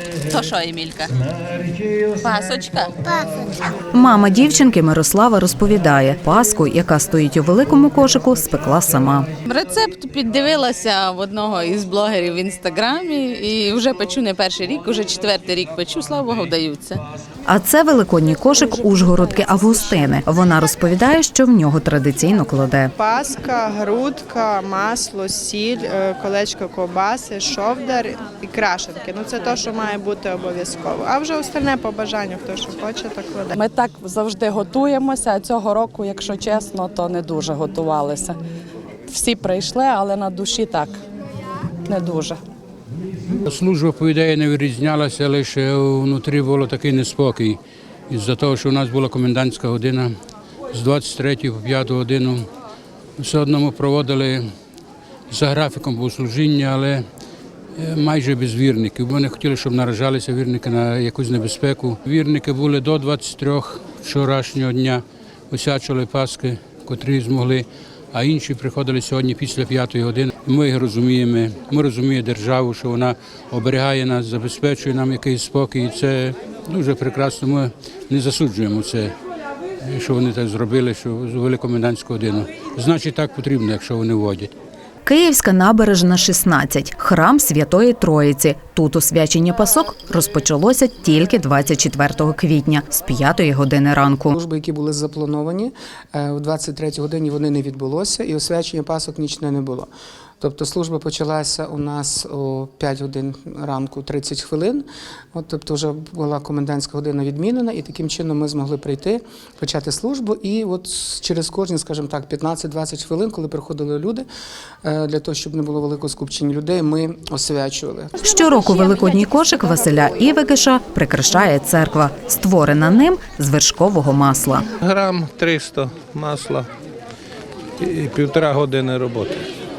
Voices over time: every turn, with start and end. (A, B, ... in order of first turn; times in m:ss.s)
0:00.3-0:01.2 A
0:02.2-0:03.4 A
0:03.9-0:09.3 B
0:09.4-0:17.0 A
0:17.5-0:22.9 B
0:23.0-0:33.6 C
0:33.6-0:38.4 D
0:39.1-0:41.0 D
0:41.9-0:42.4 D
0:43.5-0:50.1 E
0:50.7-0:52.4 E
0:53.2-0:54.4 E
0:55.3-0:57.0 E
0:57.8-1:19.1 E
1:19.8-1:24.5 E
1:25.0-1:34.4 B
1:34.3-1:54.3 F
1:54.8-1:58.2 F
1:58.2-2:04.6 B
2:04.8-2:06.7 G
2:07.8-2:09.4 G